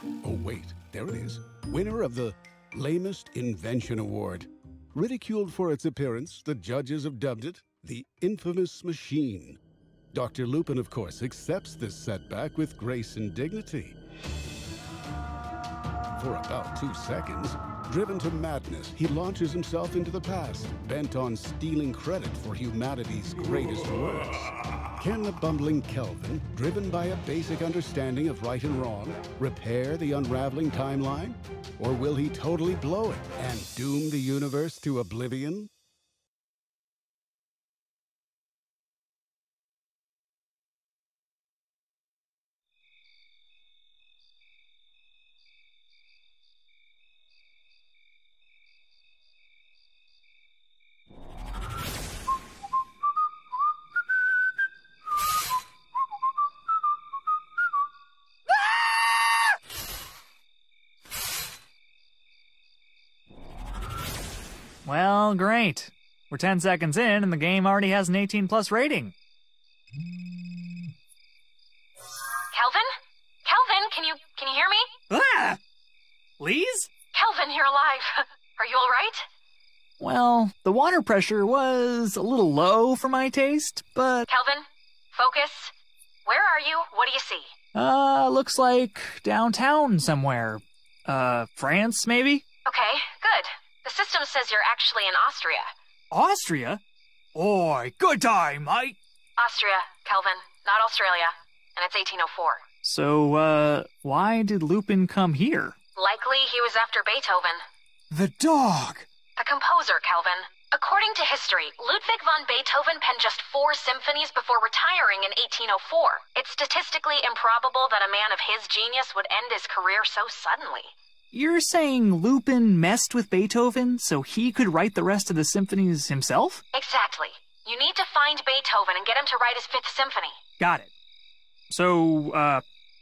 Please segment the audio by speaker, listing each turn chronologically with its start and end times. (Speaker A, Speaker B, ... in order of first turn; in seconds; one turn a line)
Speaker A: 0.2-9.6
Speaker A: 10.1-14.0
Speaker A: 16.2-35.7
Speaker B: 64.8-69.2
Speaker C: 72.5-72.9
Speaker C: 73.5-74.9
Speaker B: 75.1-75.6
Speaker B: 76.4-76.9
Speaker C: 77.1-79.2
Speaker B: 80.0-84.3
Speaker C: 84.3-85.7
Speaker C: 86.3-87.5
Speaker B: 87.7-92.4
Speaker C: 92.7-95.7
Speaker B: 96.1-96.8
Speaker B: 97.3-99.0
Speaker C: 99.4-102.6
Speaker B: 102.8-105.8
Speaker C: 106.0-107.6
Speaker B: 108.1-109.1
Speaker C: 109.4-120.9
Speaker B: 121.3-126.6
Speaker C: 126.7-130.4
Speaker B: 130.6-130.9
Speaker B: 131.7-132.6